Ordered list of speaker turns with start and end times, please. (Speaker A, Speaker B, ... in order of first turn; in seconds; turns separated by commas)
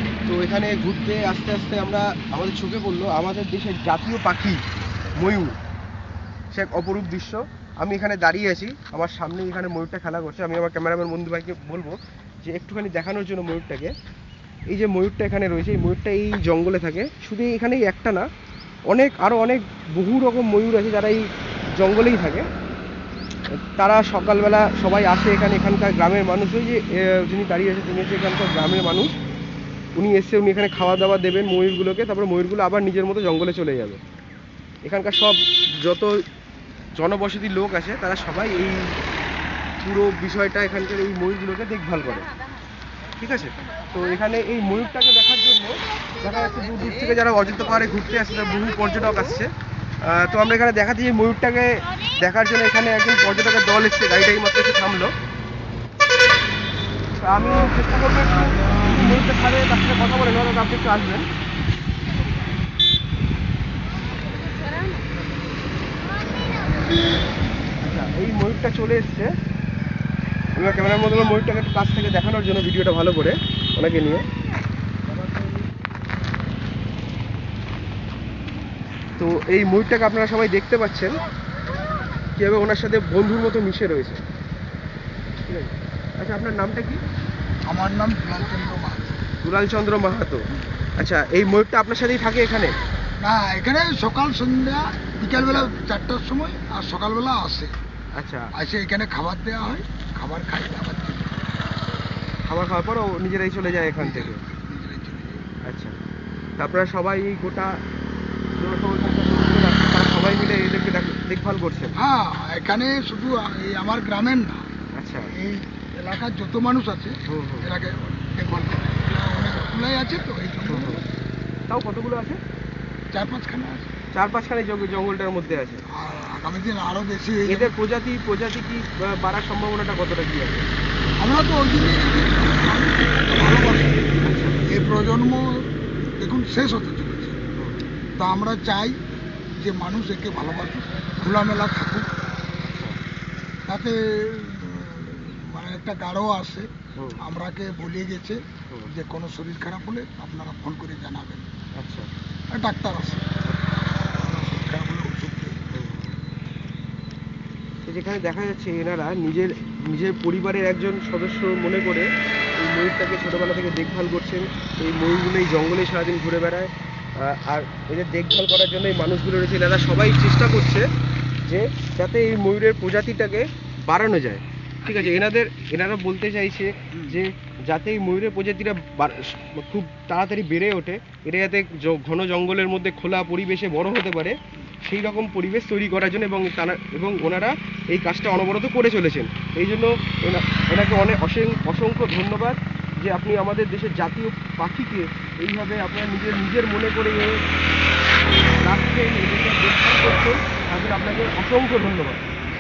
Speaker A: 0.3-4.6, Speaker A: 5.2-5.5, Speaker A: 6.5-13.9, Speaker A: 14.7-18.2, Speaker A: 18.9-21.3, Speaker A: 21.8-22.5, Speaker A: 23.7-29.1, Speaker A: 30.0-34.0, Speaker A: 34.9-36.2, Speaker A: 37.0-38.9, Speaker A: 39.8-42.3, Speaker A: 43.2-49.5, Speaker A: 50.0-55.1, Speaker A: 57.2-61.3, Speaker A: 67.8-69.3, Speaker A: 70.5-74.2, Speaker A: 75.1-75.7, Speaker A: 79.2-81.2, Speaker A: 82.4-84.2, Speaker A: 85.5-87.0, Speaker B: 87.7-89.2, Speaker A: 89.4-90.5, Speaker A: 91.0-92.8, Speaker B: 93.2-97.7, Speaker A: 95.4-95.7, Speaker A: 98.2-98.5, Speaker B: 98.5-101.3, Speaker A: 102.5-104.4, Speaker B: 104.0-105.5, Speaker A: 105.7-106.0, Speaker A: 106.6-107.8, Speaker A: 108.6-112.0, Speaker B: 112.0-114.7, Speaker A: 115.0-115.3, Speaker B: 115.2-121.1, Speaker A: 117.3-117.7, Speaker A: 120.7-121.0, Speaker A: 121.7-122.4, Speaker B: 123.1-123.9, Speaker A: 124.1-125.8, Speaker B: 125.9-127.8, Speaker A: 127.5-130.7, Speaker B: 131.2-134.0, Speaker A: 134.2-134.6, Speaker B: 134.7-137.4, Speaker A: 137.6-137.8, Speaker B: 138.2-139.0, Speaker B: 139.6-142.1, Speaker A: 142.6-143.0, Speaker B: 143.7-151.5, Speaker A: 147.0-147.2, Speaker A: 151.8-152.1, Speaker B: 152.5-153.2, Speaker B: 154.1-155.6, Speaker A: 155.7-156.2, Speaker A: 157.9-170.9, Speaker A: 171.4-197.4, Speaker A: 198.6-202.2